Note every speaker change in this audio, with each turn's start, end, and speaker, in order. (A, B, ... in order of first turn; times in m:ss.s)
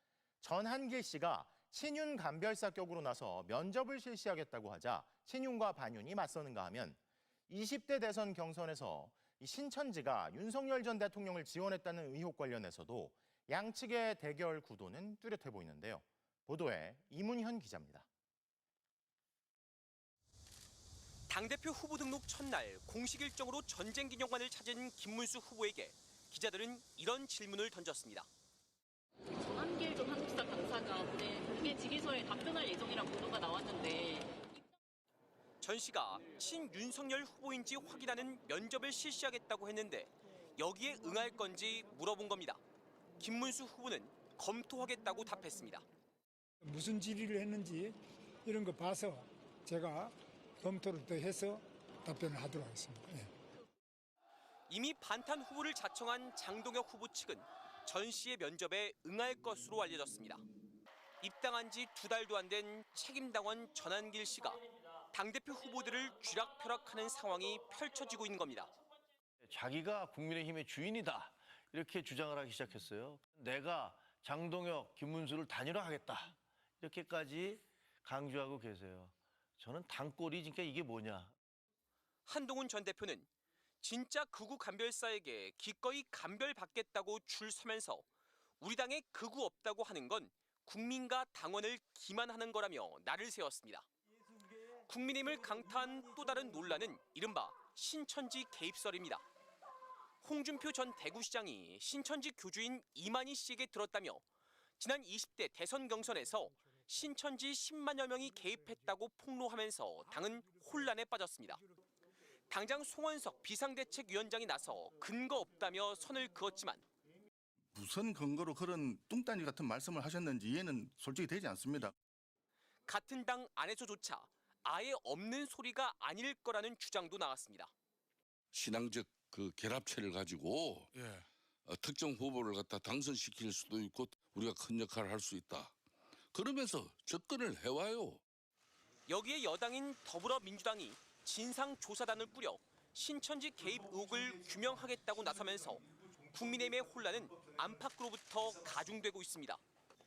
0:00.4-0:18.1 A
0:21.3-0:28.3 B
0:29.4-0:34.5 C
0:35.6-0:42.6 B
0:43.2-0:45.8 B
0:46.6-0:53.3 D
0:54.7-1:00.4 B
1:01.2-1:04.6 B
1:05.1-1:08.7 B
1:09.4-1:21.4 E
1:22.3-1:23.3 B
1:23.8-1:28.0 B
1:28.6-1:33.9 B
1:34.9-1:39.2 B
1:40.2-1:44.2 B
1:44.8-1:51.6 B
1:52.5-1:56.8 B
1:57.8-2:01.9 F
2:02.9-2:07.7 B
2:08.5-2:10.9 G
2:11.7-2:15.8 G
2:16.3-2:18.2 G
2:19.1-2:29.6 B